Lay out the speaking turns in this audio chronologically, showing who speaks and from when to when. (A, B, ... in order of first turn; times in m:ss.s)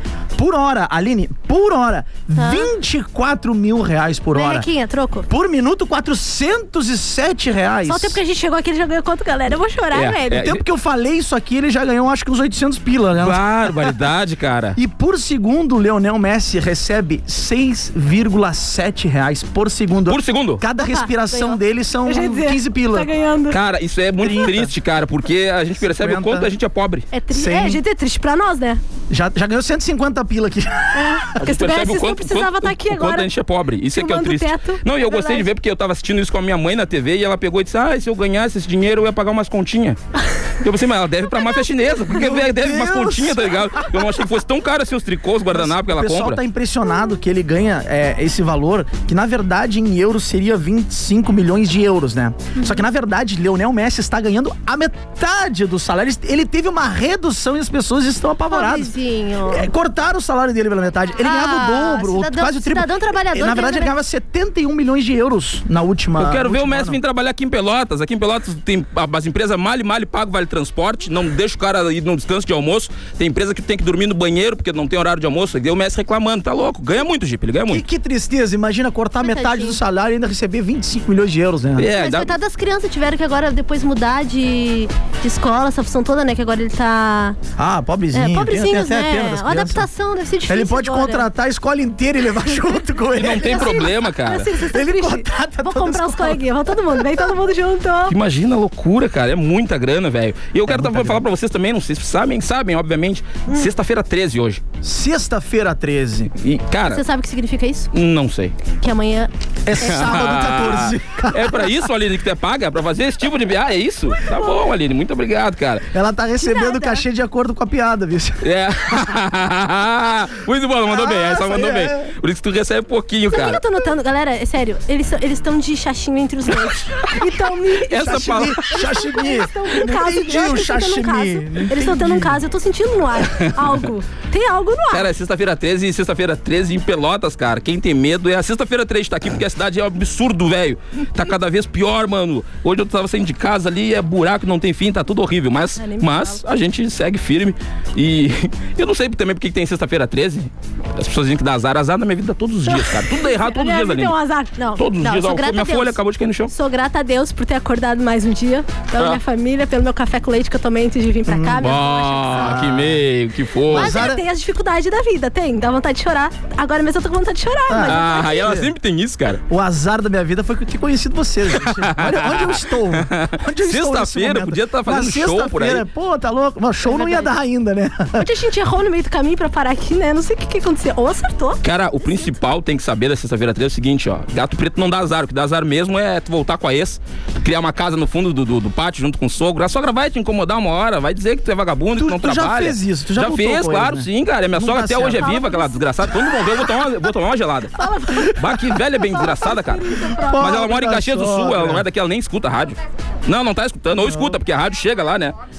0:00.4-0:04.7 A
0:02.4-0:02.7 B
0:04.3-0:05.3 B
0:05.3-0:08.2 A
0:07.9-0:10.5 B
0:09.9-0:10.6 C
0:10.4-0:13.9 A
0:13.2-0:14.8 C
0:14.8-0:23.1 A
0:20.1-0:20.6 C
0:20.8-0:23.6 B
0:23.5-0:27.1 C
0:24.2-0:24.7 A
0:25.8-0:26.5 A
0:27.1-0:28.8 B
0:27.3-0:27.8 A
0:29.1-0:31.3 A
0:31.0-0:33.3 B
0:31.4-0:40.0 C
0:33.9-0:35.5 B
0:40.6-0:46.4 C
0:41.3-0:41.6 B
0:42.1-0:43.9 A
0:45.5-0:58.9 A
0:58.5-0:59.7 B
0:59.4-1:07.0 A
1:01.2-1:03.9 B
1:06.2-1:17.8 C
1:17.7-1:21.9 A
1:19.2-1:19.8 B
1:21.8-1:22.3 C
1:21.9-1:27.4 B
1:27.6-1:29.9 A
1:28.1-1:31.3 B
1:30.5-1:33.9 A
1:33.2-1:34.5 C
1:33.2-1:38.2 B
1:34.6-1:36.4 A
1:38.1-1:44.6 C
1:40.7-1:41.2 A
1:44.8-1:46.3 A
1:46.4-1:47.0 C
1:46.9-1:47.9 B
1:47.9-1:48.5 C
1:48.8-1:49.3 B
1:49.7-1:51.7 A
1:49.8-1:55.9 C
1:55.9-1:59.0 A
1:56.4-1:57.0 B
1:58.4-2:03.6 C
2:00.9-2:02.1 A
2:03.3-2:15.1 B
2:07.9-2:08.7 C
2:07.9-2:12.4 A
2:13.4-2:13.7 C
2:14.9-2:34.2 C
2:25.8-2:26.4 B
2:32.7-2:42.6 B
2:34.8-2:36.5 C
2:41.3-2:41.7 A
2:41.6-2:44.1 C
2:42.3-2:43.0 A
2:43.7-2:44.2 A
2:43.7-2:48.5 B
2:47.7-2:48.7 A
2:47.9-2:49.4 C
2:49.5-2:58.3 A
2:51.6-2:55.8 C
2:56.8-2:57.3 B
2:58.2-3:02.4 B
3:01.6-3:25.4 C
3:12.0-3:15.3 A
3:15.1-3:15.8 B
3:17.8-3:20.7 B
3:20.3-3:21.8 A
3:24.0-3:24.4 A